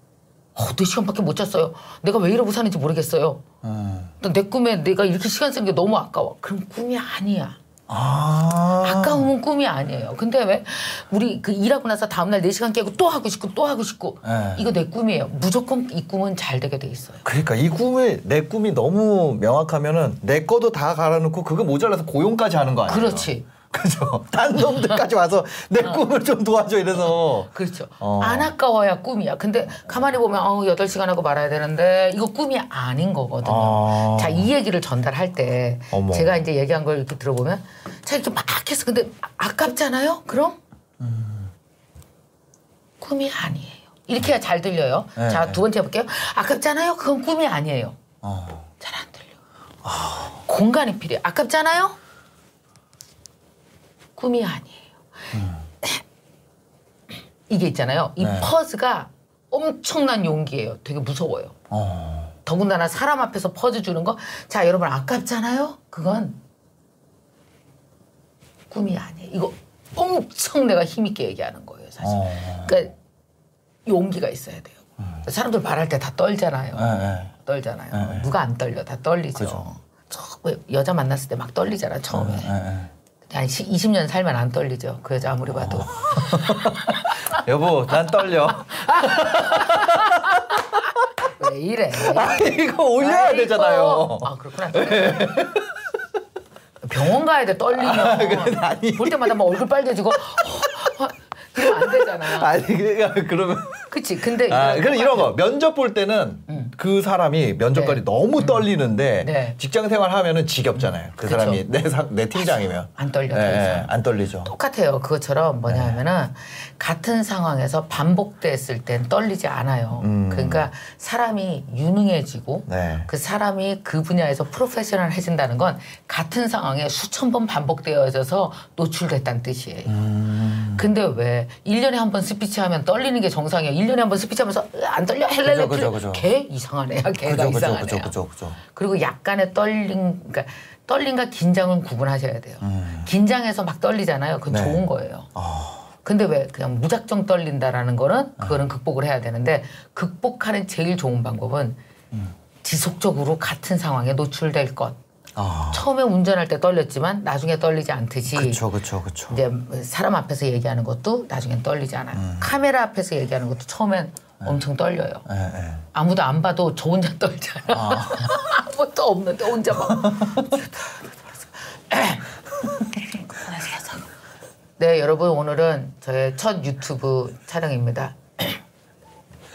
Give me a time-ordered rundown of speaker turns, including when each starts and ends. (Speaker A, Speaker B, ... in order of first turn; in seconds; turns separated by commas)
Speaker A: 0.6-3.4, Speaker B: 3.6-4.1, Speaker A: 4.2-7.6, Speaker B: 7.9-9.3, Speaker A: 8.8-17.2, Speaker B: 14.2-14.7, Speaker B: 17.2-28.5, Speaker A: 22.9-23.5, Speaker A: 24.8-25.0, Speaker A: 27.0-40.6, Speaker B: 33.4-34.5, Speaker B: 35.9-36.4, Speaker B: 41.0-41.5, Speaker A: 43.0-48.0, Speaker B: 45.2-45.6, Speaker B: 48.2-48.7, Speaker A: 48.8-49.4, Speaker B: 49.8-50.4, Speaker A: 50.5-52.0, Speaker A: 54.2-54.9, Speaker B: 55.3-55.6, Speaker A: 57.5-61.6, Speaker B: 58.2-58.5, Speaker B: 61.7-62.3, Speaker A: 62.5-66.4, Speaker A: 68.7-73.0, Speaker B: 72.0-72.8, Speaker A: 73.9-82.5, Speaker B: 76.7-77.3, Speaker B: 77.9-78.2, Speaker B: 79.4-79.7, Speaker B: 82.1-82.9, Speaker A: 83.3-87.4, Speaker B: 85.5-91.1, Speaker A: 88.2-95.5, Speaker B: 92.0-95.8, Speaker A: 96.8-102.5, Speaker B: 97.7-99.6, Speaker B: 100.1-100.9, Speaker B: 101.5-114.5, Speaker A: 103.9-105.3, Speaker A: 106.5-106.7, Speaker A: 107.7-108.7, Speaker A: 109.2-109.6, Speaker A: 110.8-111.7, Speaker A: 112.3-113.9, Speaker A: 114.5-129.9, Speaker B: 115.7-116.0, Speaker B: 120.0-120.7, Speaker B: 122.7-123.1, Speaker B: 129.9-130.9, Speaker A: 130.6-138.2, Speaker B: 135.4-136.3, Speaker B: 137.2-138.6, Speaker A: 138.7-145.3, Speaker B: 142.6-143.1, Speaker B: 144.5-145.9, Speaker A: 146.0-151.8, Speaker A: 152.6-155.0, Speaker B: 155.4-155.8, Speaker A: 155.7-158.7, Speaker B: 158.3-159.4, Speaker A: 159.3-165.2, Speaker B: 162.2-162.5, Speaker B: 165.3-165.8, Speaker A: 165.9-174.0, Speaker B: 167.7-168.4, Speaker B: 169.9-170.6, Speaker A: 174.8-178.6